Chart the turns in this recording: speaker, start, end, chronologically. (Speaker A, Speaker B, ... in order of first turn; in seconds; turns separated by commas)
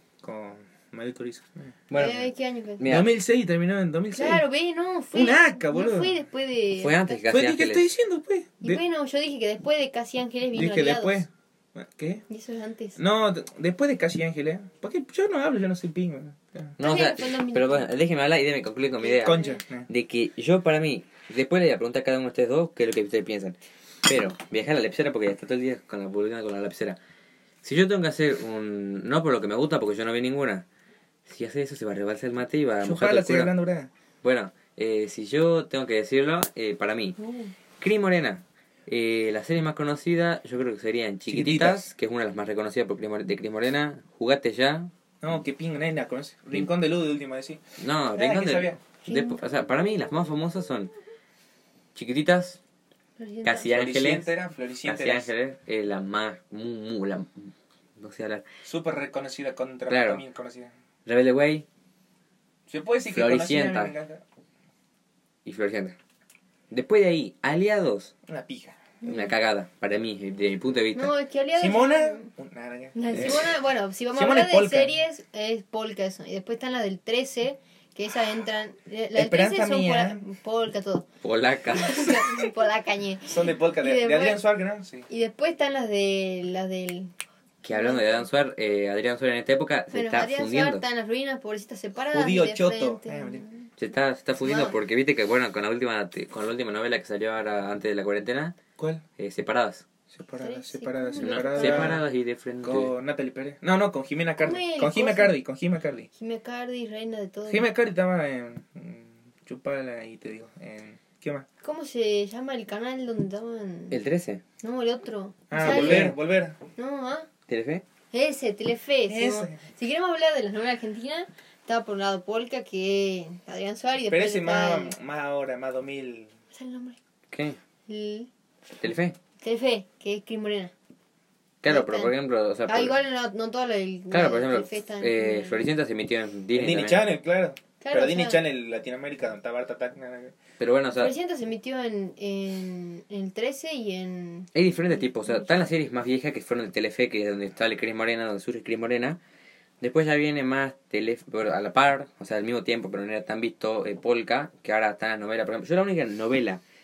Speaker A: 0.2-2.2, Speaker B: 1.9-2.3, Speaker C: 1.9-2.9, Speaker B: 2.8-3.1, Speaker A: 2.8-4.5, Speaker C: 4.1-7.2, Speaker A: 5.1-6.2, Speaker B: 6.8-7.9, Speaker A: 7.3-8.8, Speaker C: 8.6-11.2, Speaker A: 10.5-12.2, Speaker C: 12.3-13.0, Speaker A: 13.0-16.8, Speaker B: 16.8-27.0, Speaker C: 16.8-17.9, Speaker C: 19.0-19.6, Speaker A: 19.2-19.9, Speaker B: 27.6-30.6, Speaker B: 31.3-33.5, Speaker A: 32.8-33.9, Speaker B: 34.2-37.1, Speaker C: 37.2-37.5, Speaker B: 37.8-44.9, Speaker A: 41.3-41.9, Speaker A: 45.2-47.6, Speaker B: 47.8-50.9, Speaker A: 48.1-48.8, Speaker C: 49.0-49.4, Speaker B: 51.9-52.6, Speaker C: 53.2-53.7, Speaker B: 53.4-58.4, Speaker A: 53.7-55.3, Speaker A: 58.6-60.7, Speaker B: 59.9-60.2, Speaker B: 61.0-61.6, Speaker A: 62.7-64.2, Speaker B: 63.1-63.9, Speaker B: 65.5-65.9, Speaker B: 66.7-68.1, Speaker A: 68.3-68.8, Speaker C: 69.0-69.3, Speaker B: 69.0-71.1, Speaker C: 70.9-72.3, Speaker A: 71.5-73.5, Speaker C: 72.9-81.0, Speaker A: 74.1-74.9, Speaker A: 79.1-80.2, Speaker B: 81.2-82.5, Speaker C: 81.7-84.4, Speaker A: 83.2-85.0, Speaker C: 85.1-87.1, Speaker B: 87.6-90.8, Speaker C: 87.7-88.2, Speaker C: 89.9-93.7, Speaker A: 92.1-93.4, Speaker B: 93.8-98.6, Speaker C: 94.4-94.7, Speaker A: 98.8-99.0, Speaker B: 99.2-99.8, Speaker A: 100.1-102.0, Speaker C: 100.4-102.0, Speaker B: 101.2-102.9, Speaker A: 102.6-106.1, Speaker C: 104.4-105.4, Speaker C: 106.1-107.7, Speaker A: 107.5-111.5, Speaker C: 111.6-114.0, Speaker B: 113.9-114.4, Speaker C: 114.6-116.2, Speaker A: 115.5-116.6, Speaker B: 115.6-116.1, Speaker C: 116.8-117.3, Speaker B: 117.5-117.8, Speaker C: 118.1-124.9, Speaker A: 119.1-119.6, Speaker A: 124.0-126.3, Speaker C: 126.5-127.0, Speaker B: 127.3-127.6, Speaker C: 127.9-128.3, Speaker B: 128.8-129.1, Speaker C: 129.4-130.7, Speaker B: 131.6-132.9, Speaker C: 131.7-132.1, Speaker C: 132.7-135.7, Speaker B: 134.1-137.0, Speaker A: 136.5-140.3, Speaker C: 137.8-138.4, Speaker B: 140.6-141.1, Speaker C: 140.9-145.6, Speaker B: 144.5-149.2, Speaker B: 149.8-156.6